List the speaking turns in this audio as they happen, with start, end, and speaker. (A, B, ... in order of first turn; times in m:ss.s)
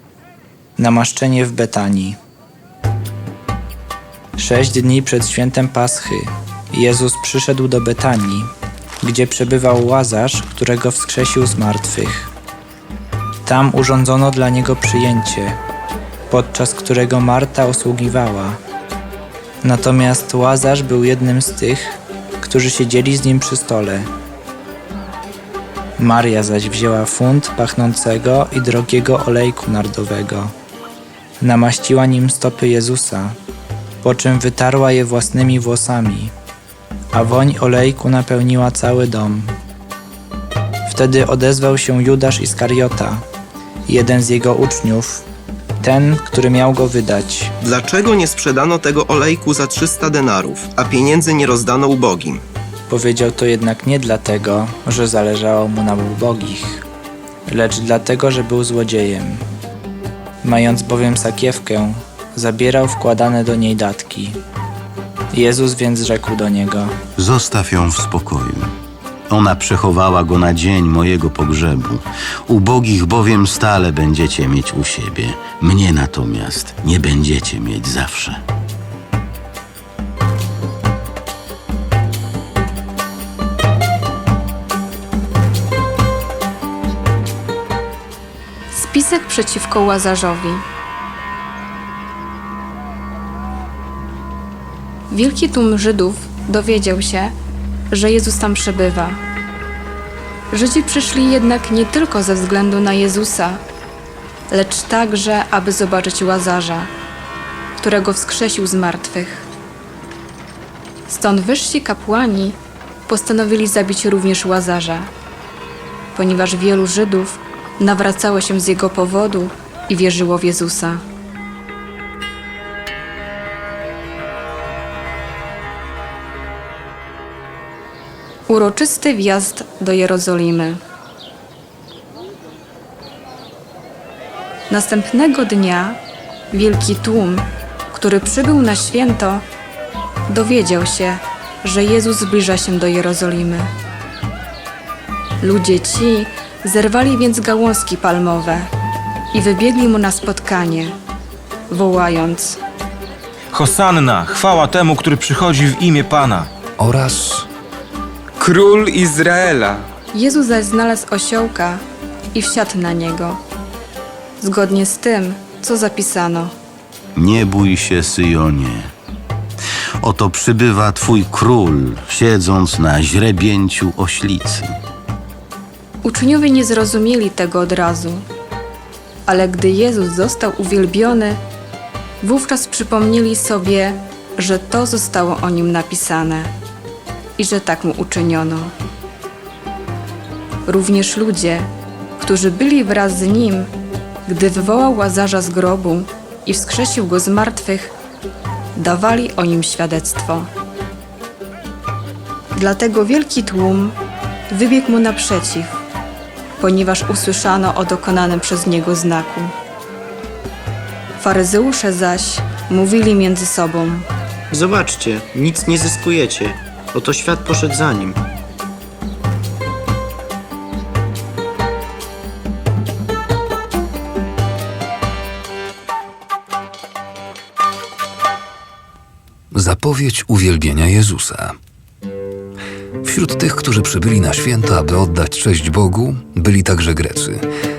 0:00.8-0:02.2 A
0:04.4-0:08.5 A
0:09.0-0:12.3 A
0:13.4-0:15.6 A
0:16.3-0:18.6 A
0:19.6-0:24.1 A
0:26.0-0:30.5 A
0:31.4-0:33.4 A
0:34.0-0:36.3 A
0:37.1-0:39.6 A
0:40.9-0:43.2 A
0:43.9-0:45.3 A
0:45.8-0:47.5 A
0:47.6-0:52.4 B
0:52.9-0:56.9 A
0:57.5-0:59.4 A
1:00.4-1:04.4 A
1:05.3-1:07.0 A
1:07.2-1:08.7 C
1:09.3-1:18.4 C
1:28.7-1:30.6 D
1:35.1-1:37.3 D
1:37.9-1:39.2 D
1:40.5-1:43.6 D
1:44.5-1:46.9 D
1:47.8-1:49.5 D
1:51.1-1:55.1 D
1:56.2-2:01.0 D
2:08.5-2:10.8 D
2:14.7-2:16.0 D
2:16.5-2:19.4 D
2:20.3-2:23.7 D
2:25.4-2:28.7 D
2:29.3-2:30.9 D
2:31.7-2:32.6 D
2:33.5-2:36.5 E
2:36.8-2:37.5 F
2:40.1-2:41.8 D
2:42.3-2:43.4 D
2:44.4-2:46.5 D
2:47.2-2:48.9 C
2:50.0-2:54.7 C
2:56.0-2:58.2 D
2:59.3-3:01.4 D
3:02.2-3:06.5 D
3:07.4-3:08.7 D
3:10.7-3:11.6 D
3:12.2-3:13.7 D
3:14.3-3:17.9 D
3:18.8-3:20.5 D
3:22.6-3:24.0 D
3:24.5-3:25.8 D
3:26.6-3:29.5 D
3:31.2-3:34.1 D
3:34.5-3:38.2 G
3:49.5-3:51.6 F
3:53.0-3:57.4 F